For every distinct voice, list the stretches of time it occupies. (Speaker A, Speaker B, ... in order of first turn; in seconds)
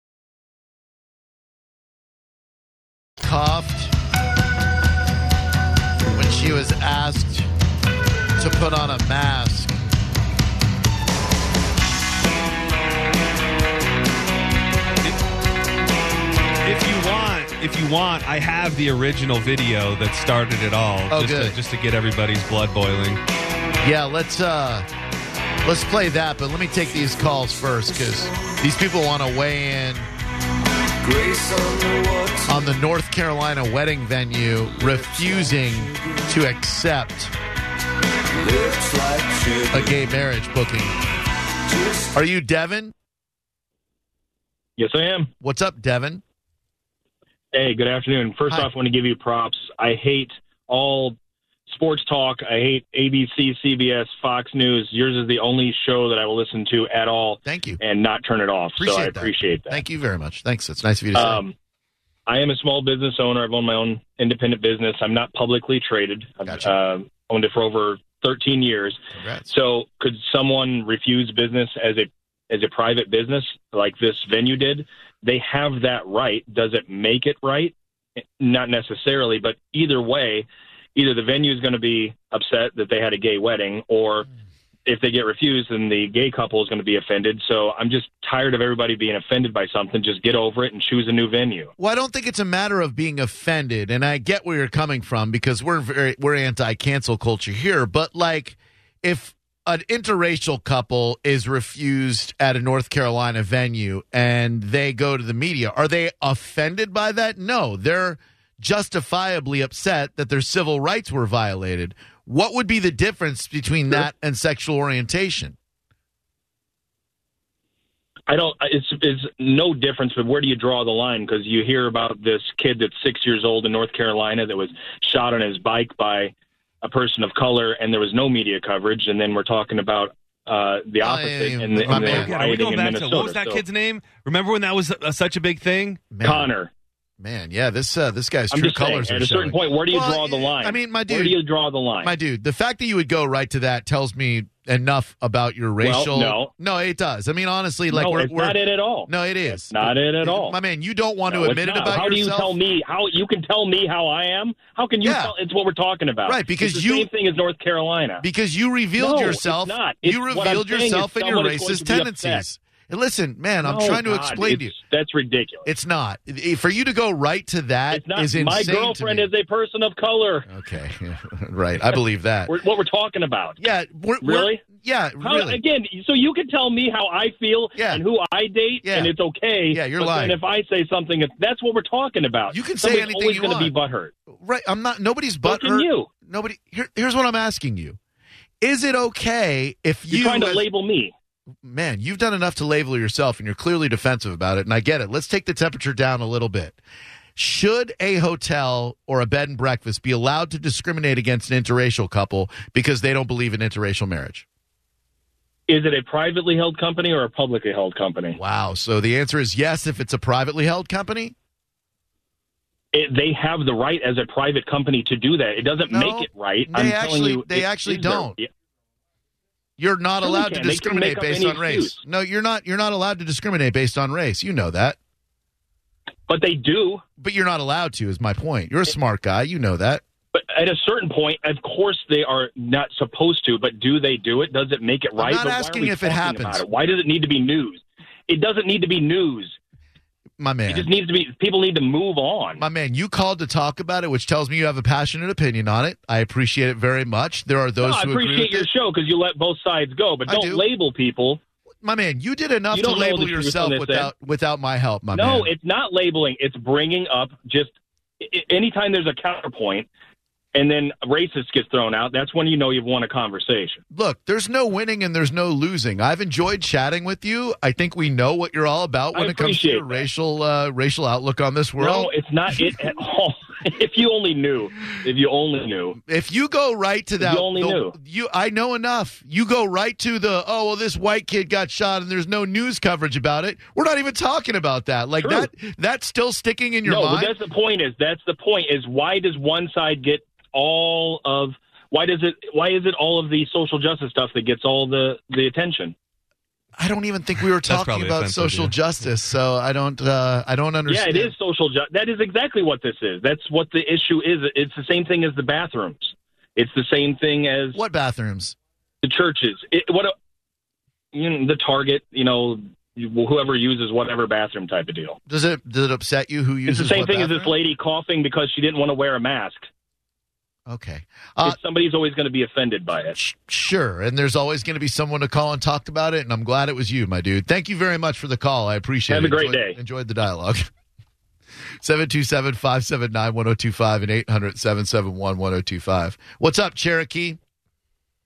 Speaker A: 3.2-3.9, 6.1-7.5, 8.4-9.7, 21.1-21.6, 23.8-24.9, 25.6-30.1, 32.4-37.3, 39.7-40.9, 42.1-42.9, 45.4-46.2, 57.4-57.8, 58.8-61.4, 69.2-69.5, 91.8-115.5, 131.0-132.3, 136.1-136.5, 137.2-141.4, 142.0-152.5, 155.0-155.3, 156.2-157.1, 158.2-164.8, 165.7-169.3, 170.5-172.5, 173.6-175.6, 177.8-178.0, 178.8-179.1, 179.7-180.3, 182.5-183.7, 184.3-188.0, 188.6-190.6, 191.6-196.8, 197.3-204.4, 208.4-211.3, 215.9-218.3, 219.8-225.0, 227.2-230.0, 235.2-236.6, 240.4-240.9, 242.6-248.7, 250.2-250.6, 251.8-255.5, 263.9-272.1, 276.0-287.4, 296.8-301.3, 307.7-308.6, 315.3-317.5, 320.7-321.6, 323.1-330.7, 331.8-337.4
Speaker B: 16.6-23.2, 131.8-136.1, 297.6-298.7
Speaker C: 44.8-45.3, 47.5-51.2, 51.7-59.8, 61.1-61.5, 62.3-77.7, 78.4-84.3, 84.8-91.7, 118.3-133.6, 136.2-136.7, 138.5-142.1, 145.8-146.5, 147.9-150.6, 151.3-158.2, 159.0-162.4, 163.6-165.7, 167.9-170.5, 172.5-173.6, 174.2-174.6, 175.2-184.1, 185.4-186.1, 190.1-191.1, 205.7-208.4, 212.9-218.5, 220.2-222.0, 226.3-227.0, 230.3-239.6, 240.7-242.6, 247.8-251.4, 252.7-254.1, 255.1-259.9, 260.5-263.8, 269.1-270.0, 271.8-276.0, 277.2-277.9, 285.2-285.5, 286.9-295.9, 300.9-307.8, 309.0-310.1, 311.1-315.2, 316.7-319.7, 321.4-323.2, 329.1-329.8